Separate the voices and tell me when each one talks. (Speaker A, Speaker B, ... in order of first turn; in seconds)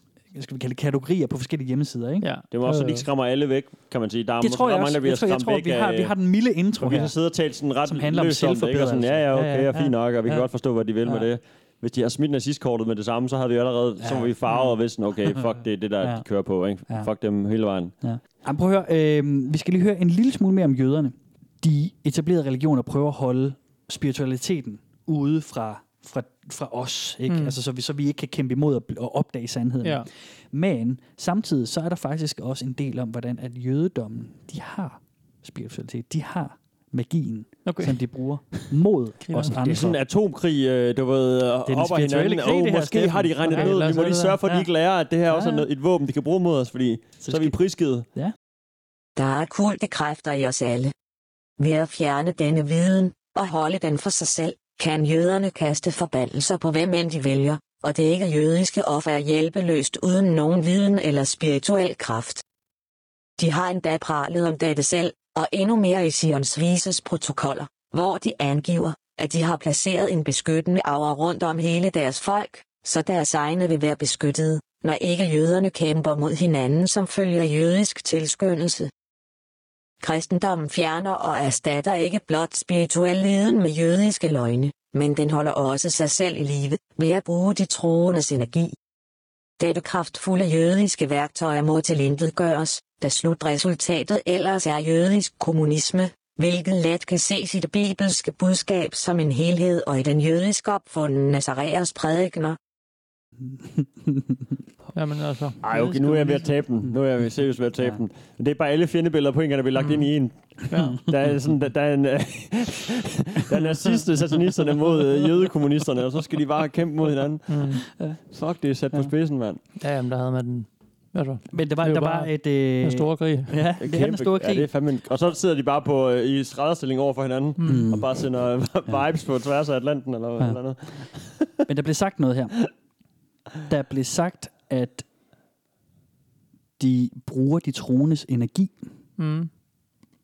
Speaker A: 0.3-2.3, 4.4-7.1, 7.9-10.5, 14.0-14.3, 18.0-40.0, 41.7-43.7, 47.2-47.6, 103.6-104.4, 117.9-118.2, 121.5-124.7, 127.6-128.1, 131.7-132.6, 133.7-135.1, 136.8-138.8
Speaker B: 2.2-3.1, 27.3-27.6, 29.8-30.1, 37.6-38.0, 39.3-39.6, 43.5-44.6, 45.3-45.7, 105.0-106.5, 109.8-110.1, 110.7-111.0, 117.5-117.8, 119.8-123.6, 127.6-127.9, 139.2-139.5
Speaker C: 2.5-6.2, 6.8-17.9, 39.6-48.1, 105.6-119.6, 123.8-131.7
Speaker D: 49.2-50.9, 51.6-62.4, 63.4-78.9, 80.0-88.8, 89.6-102.6